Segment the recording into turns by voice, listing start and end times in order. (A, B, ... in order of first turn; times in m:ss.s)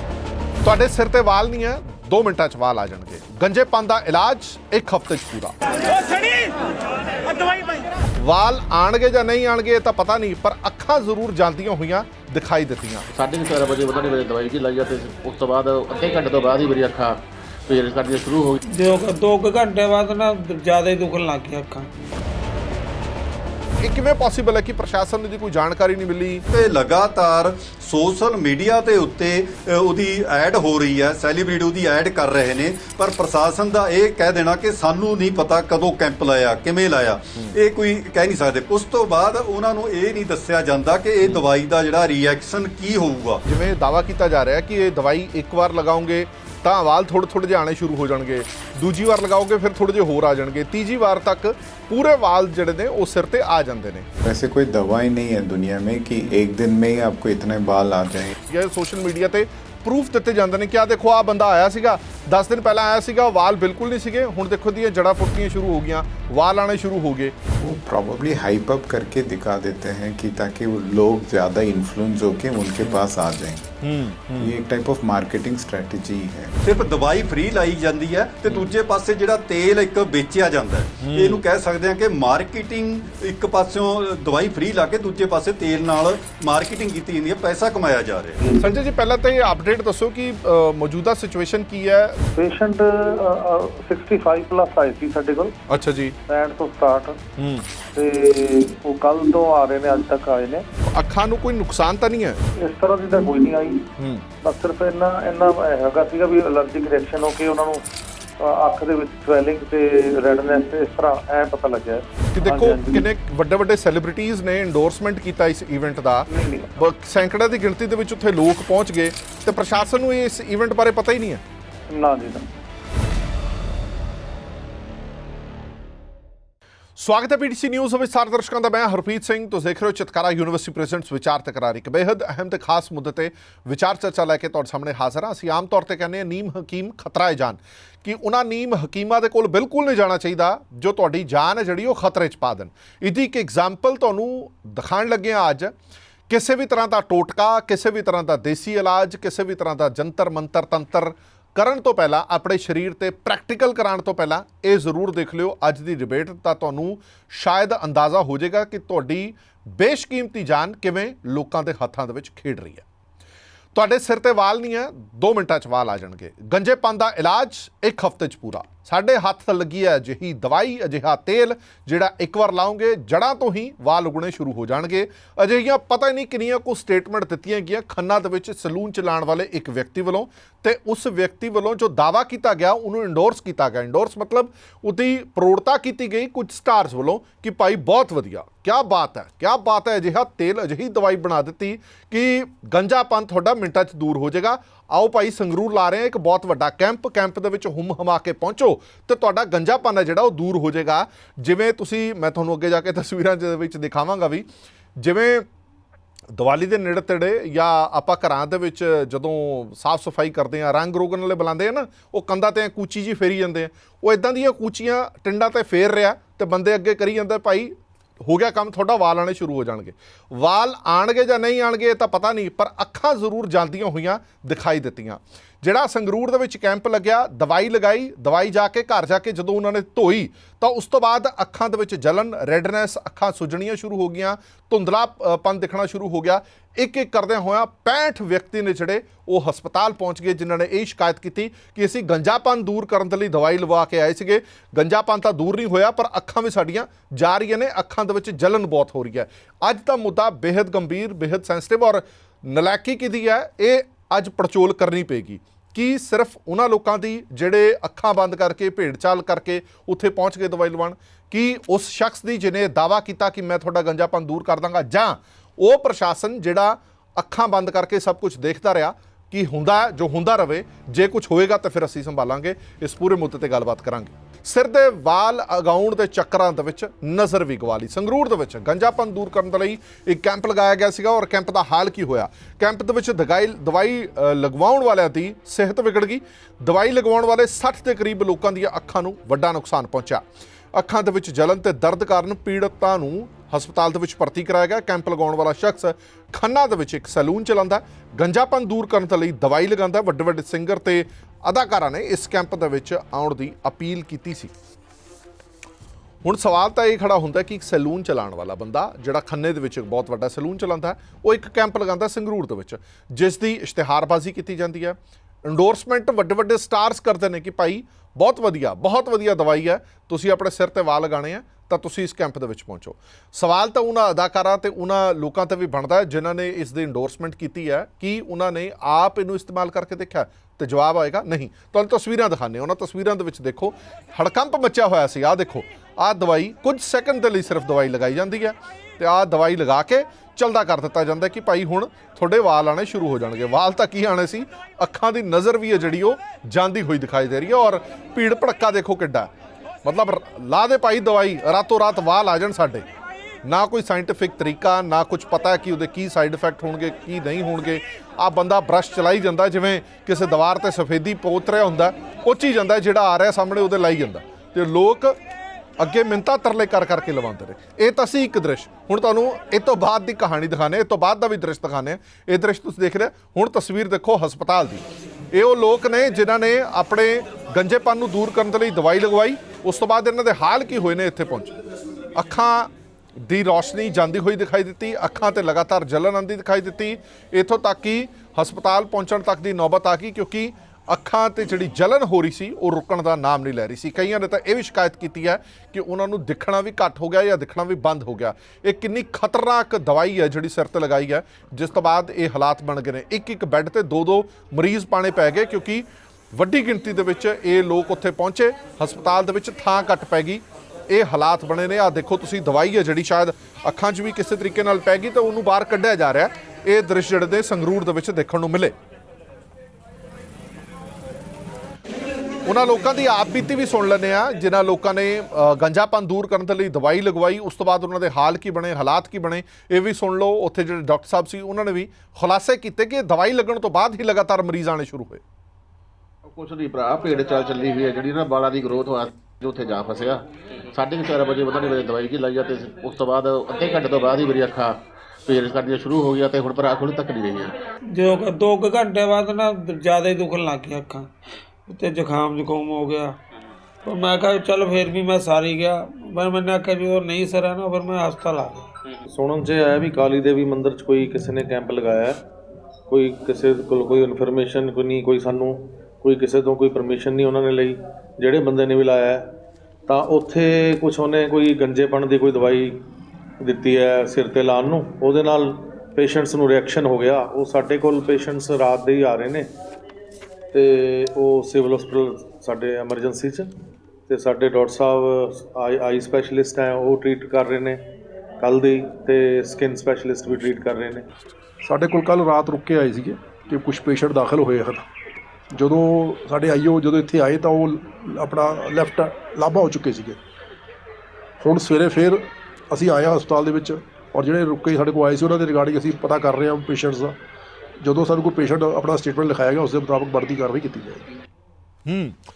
0:00.6-0:05.6 A
0:08.2-0:13.0 A
0:13.1-0:18.6 B
0:18.7-0:21.9 C
0:23.8-0:26.4 A
0:26.5-0:43.4 D
0:43.4-0:54.1 A
0:54.2-0:58.3 E
0:58.5-1:07.3 A
1:07.6-1:13.8 E
1:13.8-1:14.5 A
1:14.4-1:16.5 E
1:16.6-1:28.4 D
1:21.0-1:21.4 A
1:28.6-1:32.2 A
1:32.3-1:35.6 F
1:35.7-1:36.2 A
1:36.3-1:37.2 F
1:37.4-1:37.6 A
1:37.9-1:40.7 F
1:40.8-1:42.4 A
1:42.6-1:43.9 F
1:44.0-1:44.2 A
1:44.4-1:47.8 F
1:48.4-1:53.0 F
1:52.3-2:01.4 A
1:56.3-1:56.7 F
2:01.9-2:02.5 F
2:07.0-2:25.7 A
2:26.3-2:42.8 A
2:43.7-3:25.5 A
3:26.3-4:50.2 A
4:50.7-5:04.5 A
5:06.2-5:49.3 A
5:49.8-5:52.8 A
5:53.4-6:05.2 A
6:05.8-6:21.5 A
6:22.2-6:58.7 A
7:02.4-7:15.2 A
7:16.2-7:27.6 B
7:27.9-7:31.1 C
7:31.6-7:33.2 C
7:33.8-7:38.7 C
7:39.1-7:42.2 G
7:42.9-7:49.3 G
7:49.9-7:52.8 G
7:53.4-7:59.5 G
8:00.5-8:03.5 G
8:04.1-8:07.8 G
8:08.4-8:11.1 G
8:11.6-8:14.8 H
8:15.5-8:20.2 H
8:21.4-8:27.2 H
8:27.8-8:31.1 H
8:31.8-8:32.2 A